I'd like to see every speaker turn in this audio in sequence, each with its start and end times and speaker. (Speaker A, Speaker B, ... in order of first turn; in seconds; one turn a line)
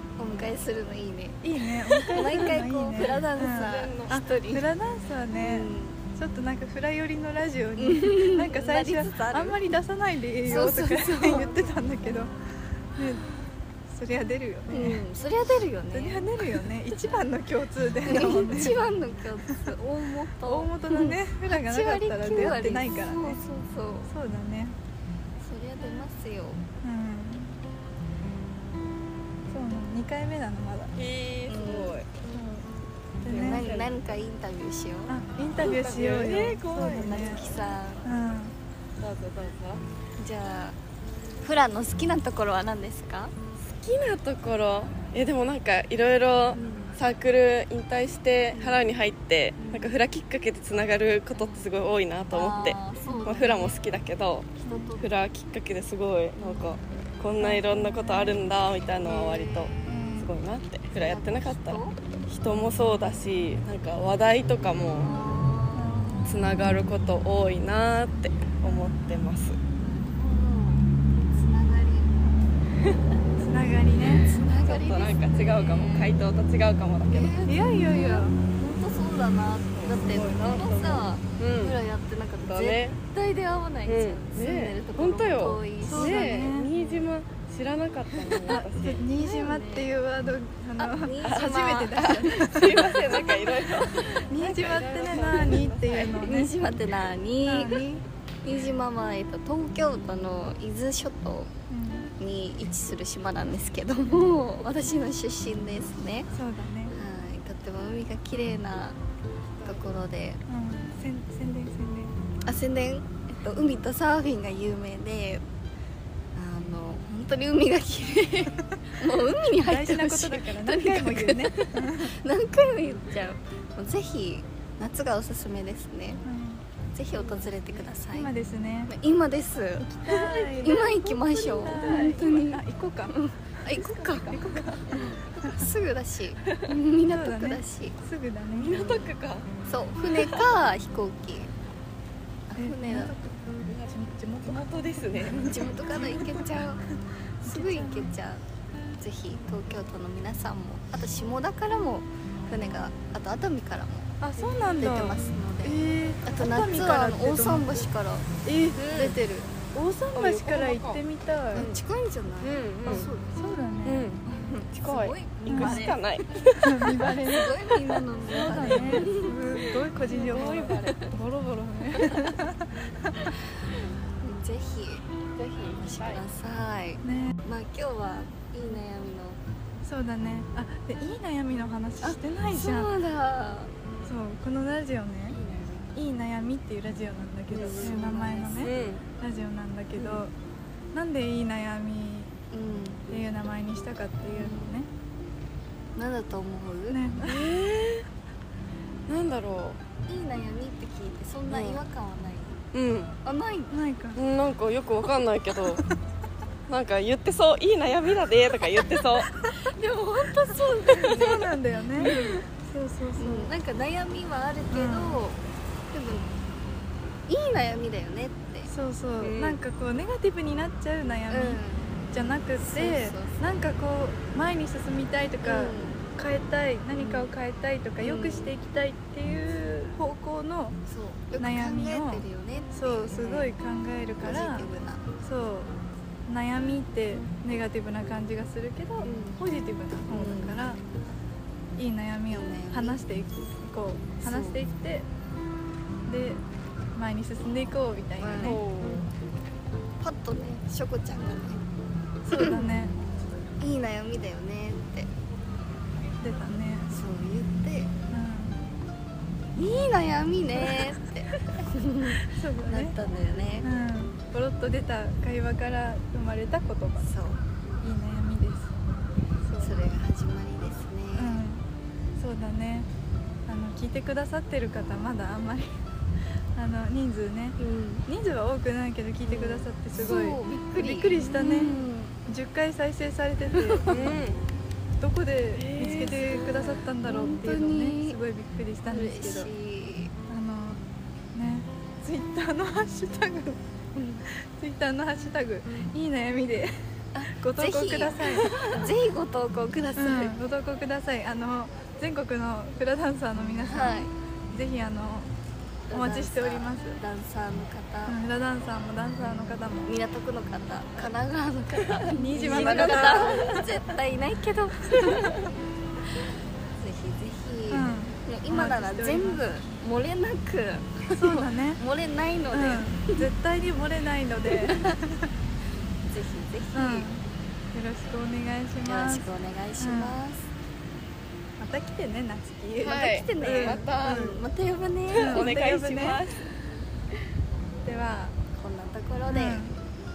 Speaker A: 0.2-4.7
Speaker B: 1.4-12.3
Speaker C: 3.0-4.2
Speaker A: 5.4-6.0
Speaker A: 7.8-9.7
Speaker A: 10.4-12.2
Speaker B: 12.9-13.3
Speaker B: 13.9-15.0
Speaker A: 14.7-16.6
Speaker B: 15.9-18.8
Speaker A: 18.0-24.1
Speaker B: 19.5-19.7
Speaker B: 20.3-23.4
Speaker B: 24.1-24.8
Speaker A: 25.4-26.6
Speaker B: 26.8-27.6
Speaker B: 29.5-30.9
Speaker C: 30.9-32.1
Speaker A: 31.5-32.0
Speaker B: 32.3-32.7
Speaker B: 33.2-33.7
Speaker C: 33.2-34.0
Speaker A: 33.3-35.1
Speaker B: 35.1-37.5
Speaker C: 35.6-37.7
Speaker A: 36.8-38.1
Speaker B: 38.0-38.5
Speaker C: 39.0-39.8
Speaker A: 40.2-40.8
Speaker A: 41.4-43.3
Speaker C: 43.6-65.2
Speaker A: 46.5-47.0
Speaker A: 48.5-48.8
Speaker A: 49.6-49.9
Speaker A: 51.3-51.7
Speaker A: 52.3-53.8
Speaker A: 54.6-55.0
Speaker A: 56.4-56.8
Speaker B: 57.4-58.4
Speaker A: 57.4-58.3
Speaker A: 59.0-60.2
Speaker B: 59.9-60.3
Speaker A: 60.9-62.0
Speaker A: 65.0-66.4
Speaker B: 65.7-66.2
Speaker C: 66.2-69.6
Speaker A: 69.8-72.2
Speaker B: 73.4-74.3
Speaker A: 74.0-76.2
Speaker C: 74.5-77.4
Speaker A: 77.1-87.1
Speaker B: 77.4-78.3
Speaker C: 79.8-81.8
Speaker C: 82.4-83.0
Speaker C: 83.8-89.0
Speaker B: 85.8-86.7
Speaker B: 88.5-92.9
Speaker A: 89.2-89.9
Speaker A: 90.8-94.0
Speaker C: 91.2-96.2
Speaker B: 94.0-96.5
Speaker A: 95.1-97.8
Speaker B: 97.4-98.0
Speaker A: 98.4-101.5
Speaker B: 101.7-102.1
Speaker A: 102.2-106.3
Speaker B: 106.3-107.0
Speaker A: 106.9-109.0
Speaker C: 109.6-109.9
Speaker A: 109.6-110.4
Speaker B: 110.5-112.2
Speaker A: 112.5-115.4
Speaker A: 116.3-126.2
Speaker B: 119.5-122.1
Speaker B: 126.2-126.6
Speaker A: 126.9-128.3
Speaker C: 127.3-127.5
Speaker B: 128.1-128.9
Speaker A: 128.9-138.0
Speaker B: 129.8-135.6
Speaker C: 130.2-131.1
Speaker C: 131.7-132.2
Speaker C: 133.9-135.1
Speaker B: 137.1-139.1
Speaker C: 138.5-139.5
Speaker A: 139.6-141.5
Speaker C: 140.1-140.4
Speaker A: 142.5-143.1
Speaker B: 142.6-148.1
Speaker C: 143.7-145.8
Speaker A: 145.4-146.8
Speaker A: 147.4-148.4
Speaker A: 149.0-154.2
Speaker B: 154.2-157.9
Speaker C: 154.4-154.7
Speaker A: 154.8-158.3
Speaker B: 158.4-159.0
Speaker C: 158.7-159.2
Speaker A: 158.9-159.5
Speaker B: 159.7-161.7
Speaker C: 160.1-161.0
Speaker A: 161.5-163.3
Speaker C: 161.5-161.8
Speaker C: 162.4-163.1
Speaker B: 162.8-164.0
Speaker C: 163.8-166.9
Speaker A: 164.2-166.0
Speaker B: 165.5-165.9
Speaker B: 166.6-167.6
Speaker A: 166.9-169.3
Speaker B: 168.3-173.3
Speaker C: 168.5-169.0
Speaker C: 170.0-171.2
Speaker A: 170.3-170.7
Speaker A: 174.2-175.0
Speaker C: 175.3-176.2
Speaker A: 175.7-179.4
Speaker B: 177.0-177.3
Speaker B: 179.8-182.9
Speaker A: 182.0-183.7
Speaker B: 184.0-185.4
Speaker C: 185.3-185.9
Speaker B: 185.9-190.3
Speaker C: 187.5-189.0
Speaker A: 187.7-188.7
Speaker A: 190.0-190.2
Speaker B: 190.9-192.3
Speaker A: 192.5-193.0
Speaker B: 193.1-194.9
Speaker A: 194.3-194.7
Speaker A: 195.9-197.0
Speaker B: 196.9-197.5
Speaker C: 197.2-198.1
Speaker C: 199.1-199.8
Speaker A: 200.1-202.6
Speaker C: 201.5-201.8
Speaker C: 202.7-203.1
Speaker A: 203.2-203.7
Speaker B: 203.7-204.2
Speaker C: 204.2-205.8
Speaker C: 206.7-209.3
Speaker A: 209.5-212.4
Speaker B: 210.9-213.5
Speaker A: 213.2-215.4
Speaker B: 214.7-215.2
Speaker A: 215.9-216.3
Speaker A: 217.3-218.7
Speaker B: 218.7-230.8
Speaker C: 219.2-219.6
Speaker A: 221.3-222.0
Speaker A: 222.6-223.6
Speaker A: 225.4-226.0
Speaker A: 226.9-227.3
Speaker A: 228.0-228.5
Speaker A: 230.8-233.6
Speaker B: 231.4-235.7
Speaker A: 234.2-235.1
Speaker B: 236.3-240.8
Speaker A: 240.1-240.6
Speaker B: 241.8-245.1
Speaker A: 242.3-243.0
Speaker A: 244.2-244.6
Speaker B: 246.1-246.4
Speaker B: 246.9-248.6
Speaker A: 248.2-248.6
Speaker C: 248.4-249.1
Speaker A: 250.0-251.6
Speaker B: 252.2-252.9
Speaker A: 252.3-252.7
Speaker A: 253.6-255.1
Speaker B: 256.2-256.9
Speaker A: 256.9-257.9
Speaker B: 258.1-258.7
Speaker A: 259.5-263.7
Speaker B: 262.2-262.9
Speaker B: 263.6-267.1
Speaker A: 267.0-267.4
Speaker B: 267.8-268.7
Speaker B: 269.4-269.8
Speaker A: 269.6-271.4
Speaker B: 271.1-271.6
Speaker B: 272.2-272.9
Speaker B: 273.5-275.7
Speaker B: 276.5-284.1
Speaker A: 277.6-278.1
Speaker A: 279.2-282.1
Speaker A: 283.5-284.2
Speaker C: 283.9-284.4
Speaker B: 285.0-289.5
Speaker A: 285.6-288.2
Speaker A: 288.9-290.1
Speaker B: 290.3-290.8
Speaker B: 291.3-293.6
Speaker A: 293.9-294.2
Speaker B: 294.3-298.9
Speaker A: 297.1-300.3
Speaker B: 300.0-305.3
Speaker A: 303.6-304.1
Speaker A: 305.9-308.2
Speaker B: 305.9-307.0
Speaker B: 308.1-309.9
Speaker A: 309.2-315.4
Speaker B: 312.1-313.7
Speaker C: 312.4-313.4
Speaker A: 316.8-323.3
Speaker B: 317.7-319.4
Speaker B: 321.1-321.8
Speaker B: 322.5-325.3
Speaker A: 324.5-324.9
Speaker A: 326.0-327.1
Speaker B: 326.7-329.3
Speaker A: 328.8-330.5
Speaker B: 329.8-330.2
Speaker B: 331.6-334.4
Speaker C: 332.8-334.4
Speaker A: 332.9-335.5
Speaker C: 335.1-336.5
Speaker B: 335.1-336.2
Speaker B: 337.8-338.4
Speaker A: 338.5-339.7
Speaker B: 339.3-339.8